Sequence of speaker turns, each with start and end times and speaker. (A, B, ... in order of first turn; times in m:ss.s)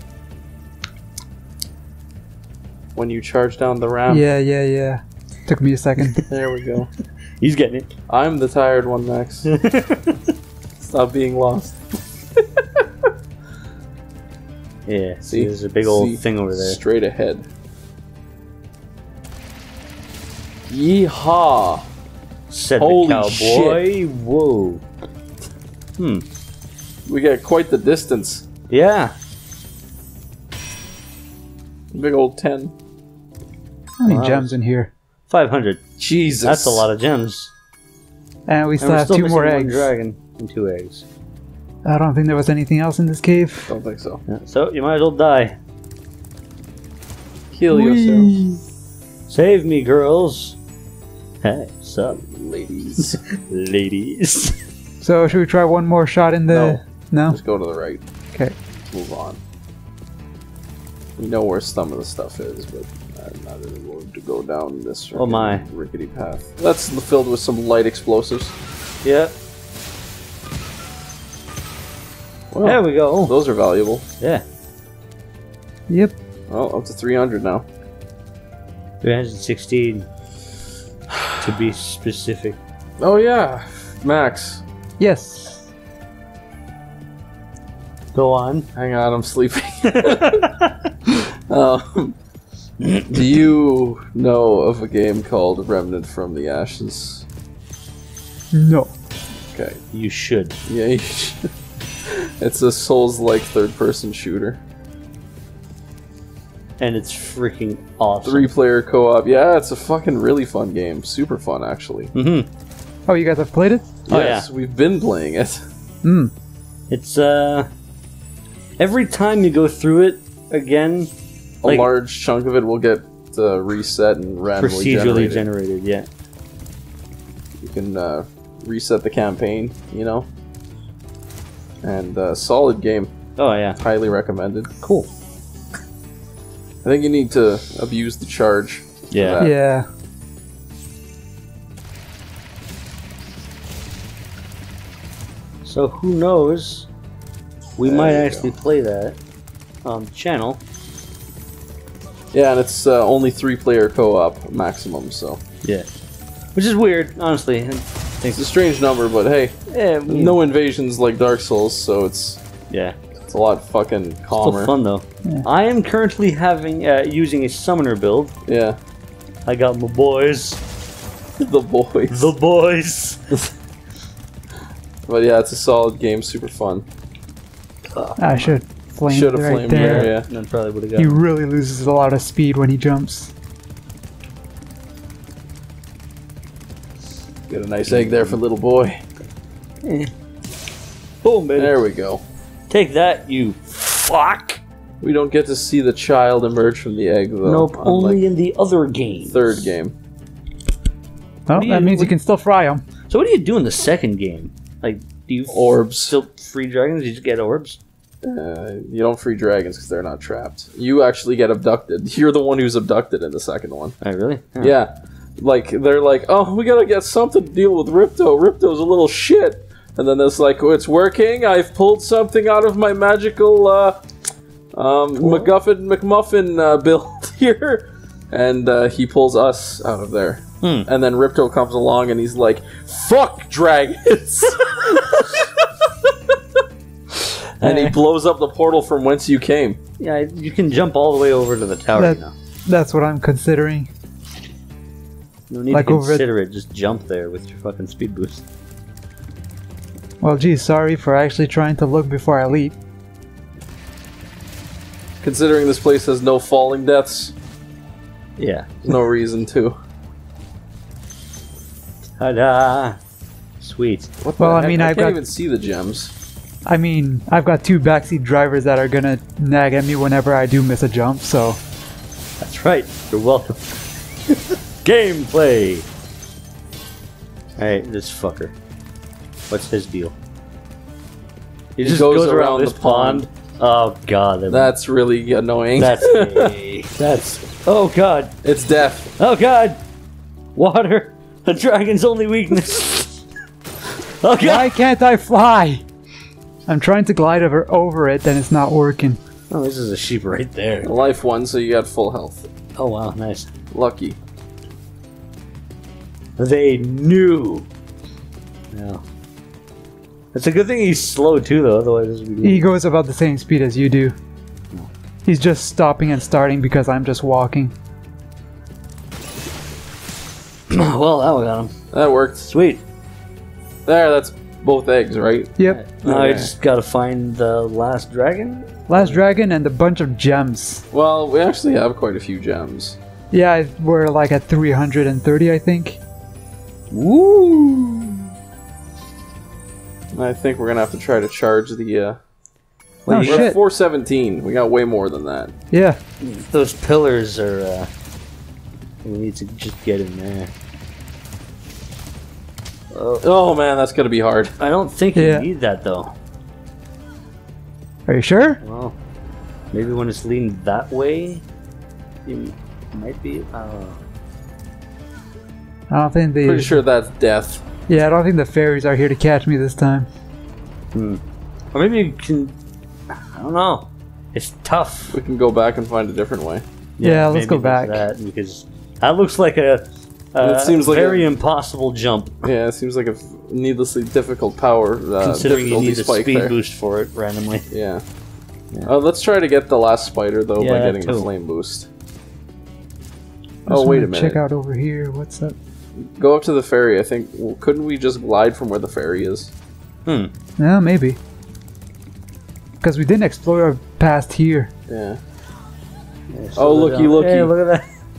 0:02.9-0:04.2 A
0:04.1-0:06.2 B
0:06.3-0:06.9 A
0:07.4-0:07.9 C
0:08.1-0:09.5 A
0:09.5-0:10.2 C
0:10.8-0:12.0 A
0:14.9-0:16.8 C
0:15.3-0:17.5 A
0:20.7-0:21.9 A
0:22.5-0:24.8 C
0:22.8-0:23.8 A
0:26.0-0:26.2 C
0:27.0-0:28.4 A
0:28.7-0:29.1 C
0:31.9-0:32.7 A
0:34.0-0:34.9 B
0:34.0-0:34.5 C
0:35.3-0:35.8 C
0:36.0-0:36.9 A
0:36.4-0:37.5 C
0:38.5-0:39.9 B
0:38.8-0:41.0 C
0:41.8-0:43.7 B
0:43.7-0:44.2 A
0:44.3-0:45.6 C
0:47.5-0:48.3 A
0:47.7-0:48.6 B
0:49.3-0:50.6 C
0:51.4-0:52.2 C
0:52.0-0:53.2 A
0:53.4-0:54.6 C
0:55.0-0:57.4 B
0:56.5-0:58.0 A
0:58.9-0:59.4 A
1:01.2-1:08.5 A
1:05.1-1:05.6 C
1:09.0-1:09.3 C
1:12.5-1:14.0 A
1:12.6-1:13.3 C
1:15.9-1:16.2 B
1:16.5-1:17.6 A
1:19.0-1:20.1 C
1:21.4-1:22.6 C
1:23.0-1:24.6 A
1:25.0-1:25.7 B
1:28.1-1:28.7 C
1:28.7-1:30.5 A
1:31.1-1:32.1 A
1:33.1-1:37.2 A
1:38.5-1:38.9 B
1:39.5-1:39.8 A
1:39.9-1:40.5 C
1:40.6-1:41.5 A
1:42.1-1:44.6 A
1:46.8-1:48.5 C
1:48.2-1:52.1 A
1:52.1-1:52.5 C
1:53.1-1:53.9 B
1:54.1-1:55.6 A
1:54.1-1:54.5 C
1:56.0-1:56.3 B
1:56.9-1:57.7 C
1:58.8-2:01.1 C
2:01.6-2:05.4 A
2:01.6-2:01.9 C
2:04.6-2:06.1 C
2:07.6-2:10.3 A
2:11.8-2:13.1 A
2:13.4-2:13.8 C
2:13.8-2:14.7 A
2:14.8-2:15.1 C
2:16.8-2:19.5 A
2:19.1-2:19.5 C
2:19.4-2:19.9 B
2:25.6-2:26.9 C
2:27.8-2:29.2 C
2:27.8-2:28.5 A
2:29.8-2:30.6 C
2:32.3-2:35.4 A
2:36.5-2:38.4 C
2:38.3-2:42.4 A
2:39.7-2:40.4 C
2:42.7-2:43.0 C
2:43.3-2:44.8 A
2:44.3-2:48.3 C
2:48.4-2:48.8 A
2:49.4-2:50.6 C
2:51.4-2:52.3 A
2:52.1-2:53.2 C
2:55.1-2:56.8 A
2:57.9-2:58.6 C
2:58.2-3:00.1 B
2:59.1-3:00.3 A
2:59.7-3:01.2 C
3:01.0-3:03.3 B
3:07.5-3:09.0 A
3:07.8-3:08.4 C
3:09.8-3:10.1 C
3:11.2-3:11.8 C
3:11.6-3:12.2 A
3:12.7-3:14.6 C
3:15.0-3:18.2 A
3:17.4-3:19.6 C
3:19.3-3:19.9 A
3:21.5-3:22.8 B
3:21.5-3:22.1 C
3:23.1-3:27.8 C
3:25.5-3:26.2 A
3:28.2-3:34.0 A
3:34.0-3:34.8 C
3:34.6-3:44.0 A
3:44.7-3:55.5 A
3:45.2-3:45.5 C
3:50.6-3:50.9 C
3:57.6-3:59.8 A
3:57.6-3:58.0 C
4:00.0-4:02.3 C
4:02.0-4:03.9 B
4:05.5-4:08.4 C
4:05.7-4:06.2 B
4:10.2-4:12.8 B
4:15.2-4:17.3 A
4:18.4-4:18.7 C
4:18.8-4:19.8 A
4:22.2-4:23.0 C
4:23.6-4:24.1 C
4:24.2-4:26.1 A
4:24.4-4:25.2 B
4:26.6-4:31.6 B
4:32.4-4:33.8 C
4:34.8-4:35.9 C
4:37.6-4:38.5 C
4:39.5-4:40.1 C
4:41.8-4:44.7 C
4:41.8-4:43.3 A
4:44.5-4:46.5 A
4:45.8-4:48.3 C
4:48.4-4:49.1 A
4:49.2-4:49.8 C
4:50.5-4:53.2 C
4:54.2-4:54.7 C
4:54.4-4:55.8 B
4:56.7-4:59.2 B
4:59.5-5:00.9 C
5:00.8-5:02.5 A
5:02.7-5:03.5 C
5:03.7-5:04.2 A
5:06.4-5:07.7 C
5:08.7-5:09.0 C
5:10.3-5:12.7 C
5:12.4-5:14.2 B
5:15.2-5:17.7 B
5:20.7-5:21.7 C
5:21.9-5:22.5 A
5:22.4-5:22.8 C
5:23.8-5:26.5 A
5:25.6-5:29.2 C
5:28.9-5:30.8 B
5:30.9-5:33.0 A
5:33.3-5:36.0 B
5:36.9-5:38.2 C
5:40.1-5:42.2 A
5:43.0-5:43.5 C
5:43.1-5:43.6 B
5:43.2-5:45.5 A
5:45.7-5:46.0 B
5:46.2-5:47.9 C
5:49.0-5:50.5 C
5:52.9-5:53.2 C
5:53.2-5:54.5 A
5:54.6-5:56.1 C
5:55.1-5:55.5 B
5:58.1-5:58.6 B
5:58.6-5:59.0 C
5:59.7-6:01.4 C
6:02.2-6:04.0 C
6:05.9-6:06.8 B
6:06.4-6:07.7 A
6:07.9-6:10.1 B
6:10.9-6:11.2 C
6:11.7-6:12.5 C
6:13.3-6:15.2 C
6:15.1-6:16.6 A
6:17.0-6:22.4 C
6:17.0-6:18.0 B
6:20.4-6:21.4 A
6:22.4-6:26.6 A
6:25.2-6:27.7 C
6:27.7-6:28.0 A
6:28.8-6:31.9 A
6:30.6-6:31.3 C
6:33.6-6:34.4 A
6:33.7-6:35.6 B
6:36.0-6:39.5 A
6:40.0-6:40.3 C
6:40.6-6:41.2 B
6:42.8-6:44.7 B
6:44.9-6:45.2 A
6:46.3-6:47.8 C
6:46.6-6:47.5 A